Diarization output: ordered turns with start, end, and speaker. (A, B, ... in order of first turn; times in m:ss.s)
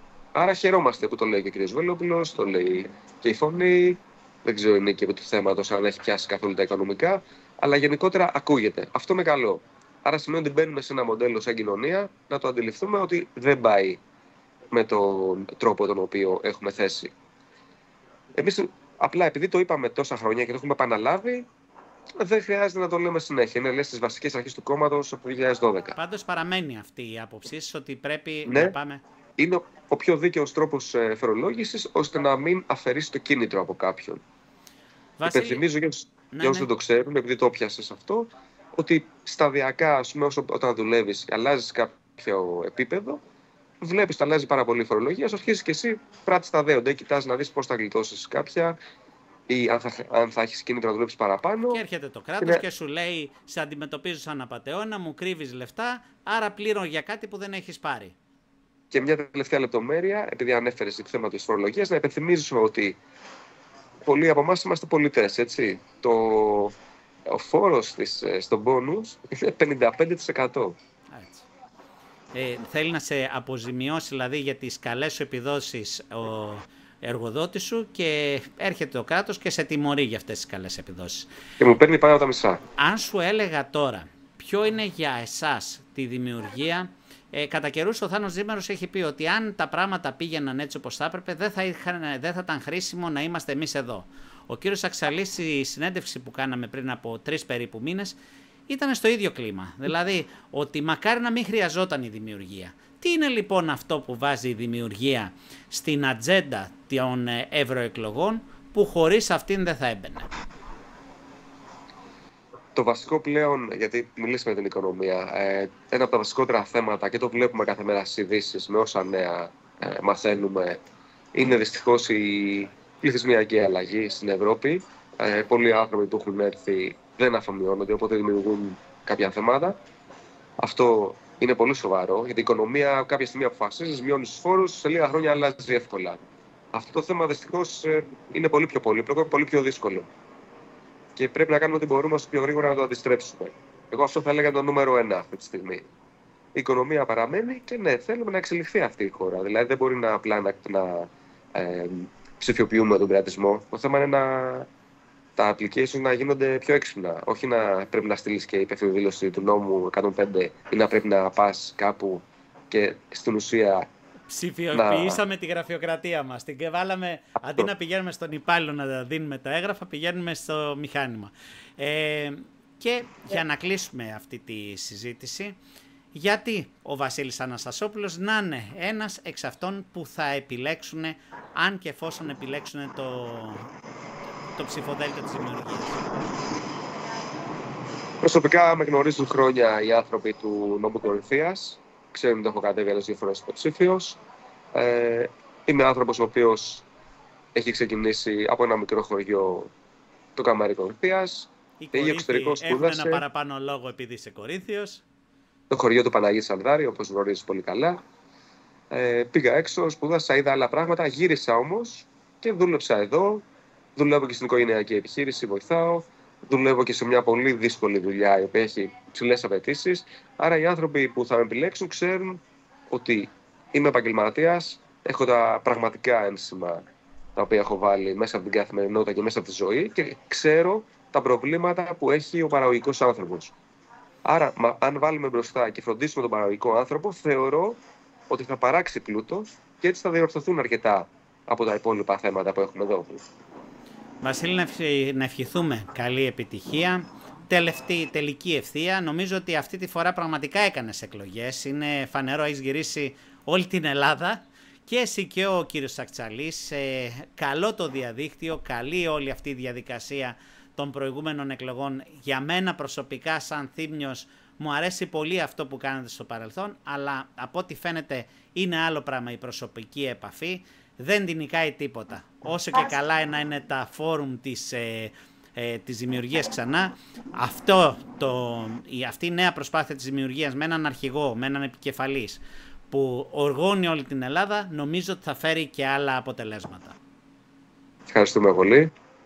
0:00.4-0:14.0 A
0:14.7-0:17.1 A
0:18.4-0:21.5 A
0:22.2-0:25.9 A
0:26.0-0:29.0 B
0:28.5-0:28.8 A
0:29.4-0:34.2 A
0:35.2-0:35.6 B
0:35.3-0:43.2 A
0:36.3-0:36.7 B
0:43.8-0:48.8 A
0:49.5-0:51.8 A
0:51.7-0:58.2 B
0:58.9-1:03.0 A
1:04.0-1:06.8 A
1:07.3-1:10.8 A
1:11.1-1:11.5 B
1:12.3-1:21.3 B
1:21.6-1:22.6 A
1:22.8-1:50.3 B
1:52.8-2:00.8 A
2:01.3-2:09.8 A
2:10.6-2:16.2 A
2:16.7-2:20.1 A
2:21.2-2:25.8 A
2:26.6-2:34.7 A
2:35.4-2:43.9 A
2:44.3-2:55.6 B
2:44.7-2:45.2 A
2:56.1-3:03.7 B
3:04.6-3:06.0 B
3:08.2-3:14.2 A
3:14.7-3:16.9 A
3:17.6-3:19.7 A
3:20.4-3:23.2 A
3:21.8-3:25.0 B
3:25.7-3:28.0 A
3:28.9-3:33.4 A
3:34.0-3:46.8 A
3:47.4-3:53.6 A
3:54.2-4:03.2 A
4:04.2-4:47.0 B
4:48.1-4:48.9 A